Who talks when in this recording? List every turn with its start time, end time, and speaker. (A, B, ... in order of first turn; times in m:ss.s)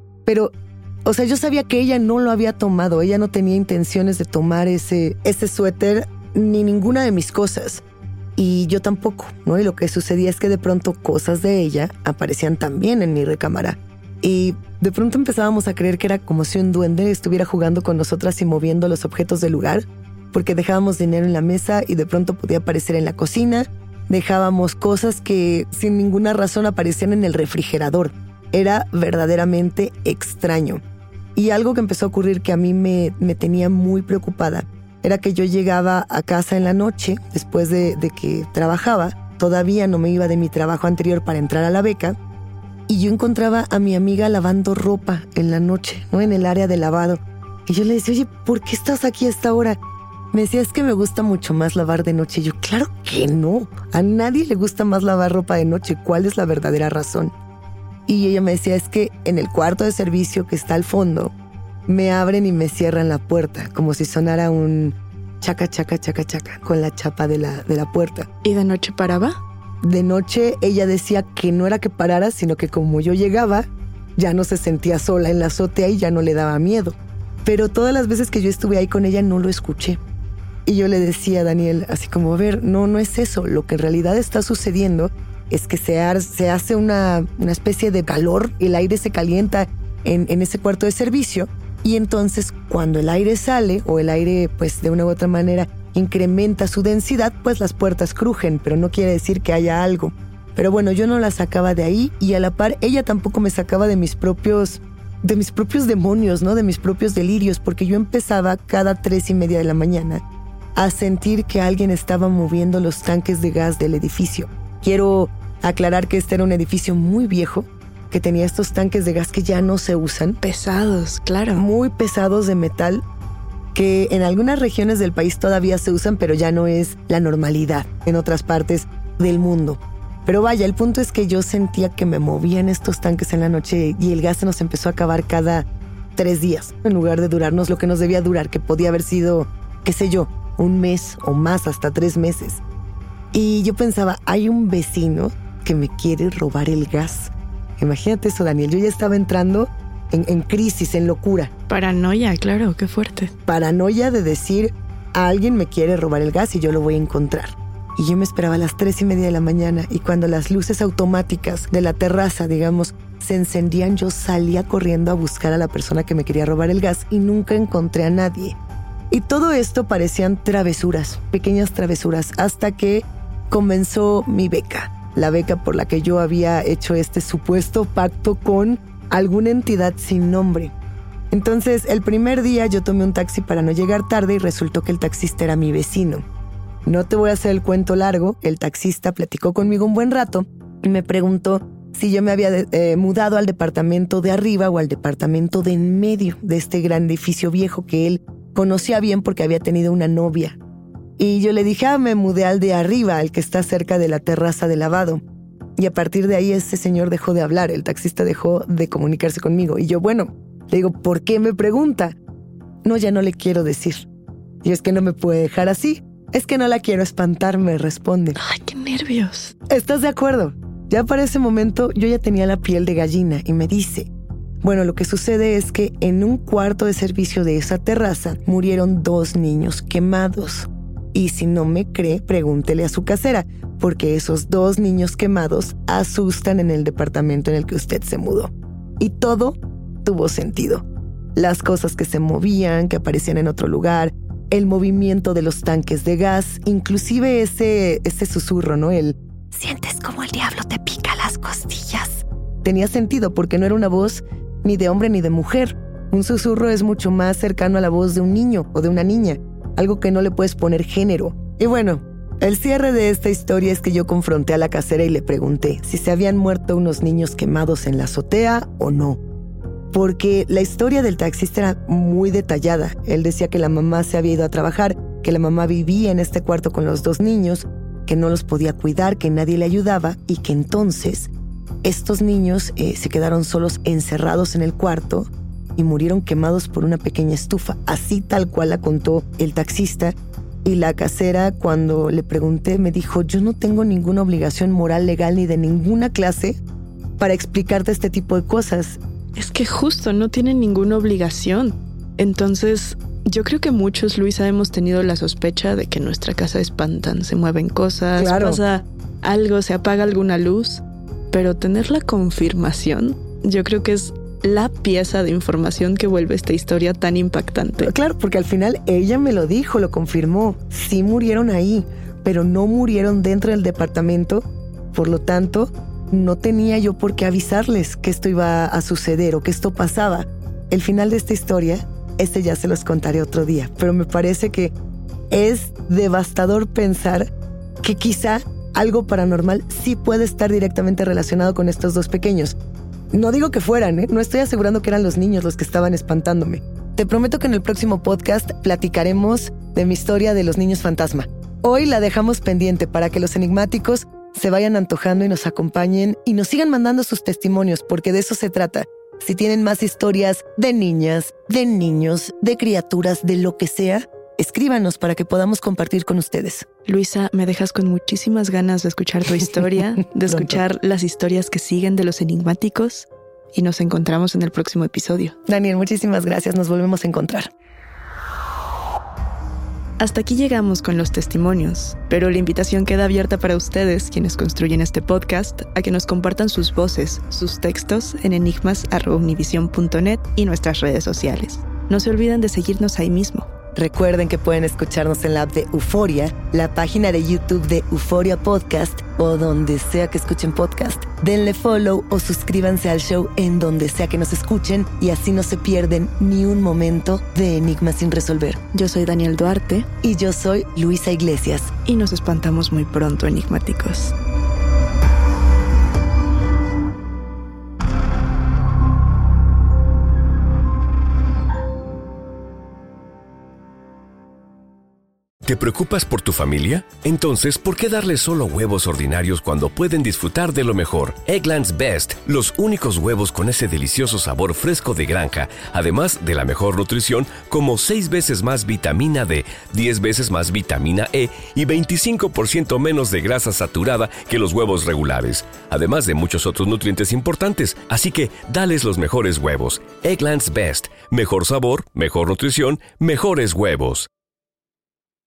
0:00.2-0:00.5 A
0:01.0-0:07.8 A
0:08.4-0:30.8 A
0:31.4-0:42.2 A
0:42.9-0:49.8 A
0:50.3-0:57.3 A
0:58.0-1:01.3 A
1:01.9-1:08.3 A
1:08.4-1:09.4 B
1:09.8-1:20.0 A
1:20.6-1:50.2 A
1:50.8-2:00.4 A
2:00.4-2:01.6 B
2:01.5-2:03.0 A
2:03.7-2:22.6 A
2:23.3-2:31.5 A
2:31.7-2:33.3 B
2:33.4-2:48.6 A
2:49.1-3:00.7 A
3:01.3-3:06.2 A
3:06.8-3:20.6 A
3:21.2-3:25.2 A
3:25.8-3:32.2 A
3:32.8-3:34.1 A
3:34.6-3:38.4 A
3:38.4-3:39.5 B
3:39.7-3:44.1 A
3:44.6-4:29.2 A
4:29.9-4:41.3 A
4:41.8-4:56.6 A
4:57.2-4:59.0 A
4:59.4-5:17.9 B
5:08.2-5:08.6 A
5:17.8-5:34.7 A
5:35.3-5:37.3 A
5:37.8-5:42.5 A
5:43.1-6:06.7 A
6:06.9-6:15.3 B
6:10.3-6:10.6 A
6:15.5-6:17.5 A
6:20.0-6:33.5 B
6:33.7-6:48.6 A
6:48.7-6:49.9 B
6:50.0-6:51.7 A
6:51.8-6:54.1 B
7:05.4-7:34.1 C